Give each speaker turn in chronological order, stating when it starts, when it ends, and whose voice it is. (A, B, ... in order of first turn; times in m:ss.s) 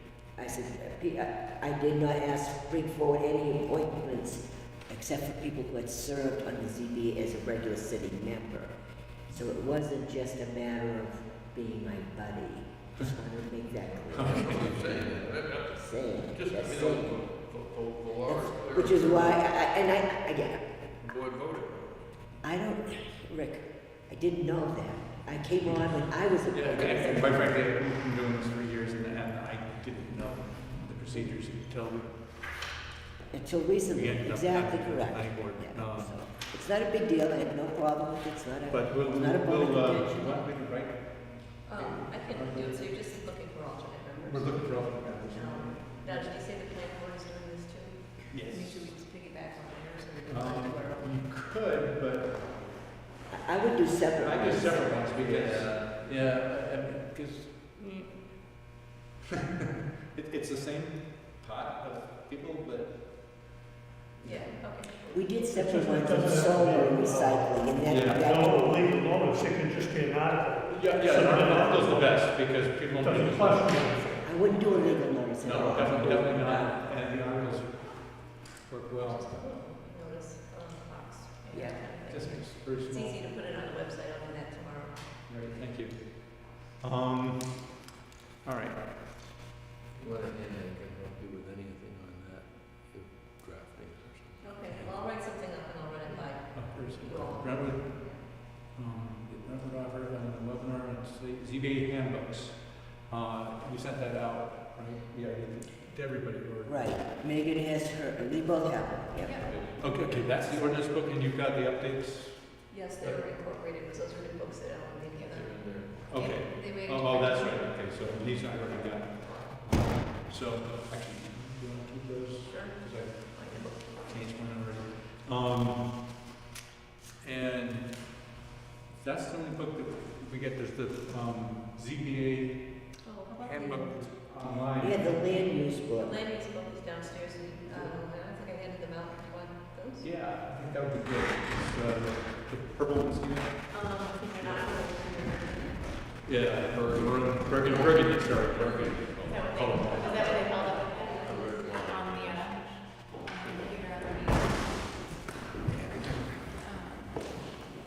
0:00.4-0:08.7 A
0:09.3-0:17.2 A
0:14.1-0:19.4 B
0:14.1-0:15.0 C
0:18.3-0:20.9 A
0:21.0-0:22.2 B
0:22.4-0:27.6 A
0:26.5-0:32.4 C
0:33.3-0:40.5 A
0:33.9-0:36.2 C
0:38.7-0:42.9 C
0:41.6-0:51.3 D
0:44.3-0:46.3 C
0:48.3-0:48.9 C
0:50.3-0:52.5 C
0:53.3-0:55.1 A
0:54.2-0:57.5 C
0:55.2-0:56.1 B
0:57.8-0:58.2 D
1:00.1-1:03.1 C
1:04.2-1:05.7 D
1:05.1-1:08.8 A
1:05.5-1:14.4 E
1:07.9-1:08.3 C
1:10.7-1:13.9 C
1:14.2-1:16.9 A
1:15.4-1:19.5 C
1:19.0-1:25.5 D
1:21.5-1:21.8 A
1:22.0-1:23.2 C
1:25.3-1:27.7 C
1:28.4-1:28.9 C
1:29.9-1:35.0 B
1:34.4-1:38.3 D
1:36.5-1:47.0 C
1:46.6-1:49.6 A
1:49.2-1:50.3 F
1:49.8-1:53.2 C
1:52.7-1:57.5 D
1:55.3-1:56.1 B
1:56.1-2:06.0 C
2:02.4-2:04.6 D
2:07.2-2:08.2 C
2:08.9-2:12.9 C
2:13.0-2:13.9 D
2:13.5-2:15.2 C
2:14.5-2:16.2 A
2:15.3-2:20.1 D
2:20.0-2:23.7 C
2:23.7-2:24.7 F
2:23.7-2:26.1 D
2:26.2-2:30.3 C
2:26.5-2:34.2 B
2:29.2-2:35.4 F
2:29.8-2:31.8 D
2:36.6-2:37.7 F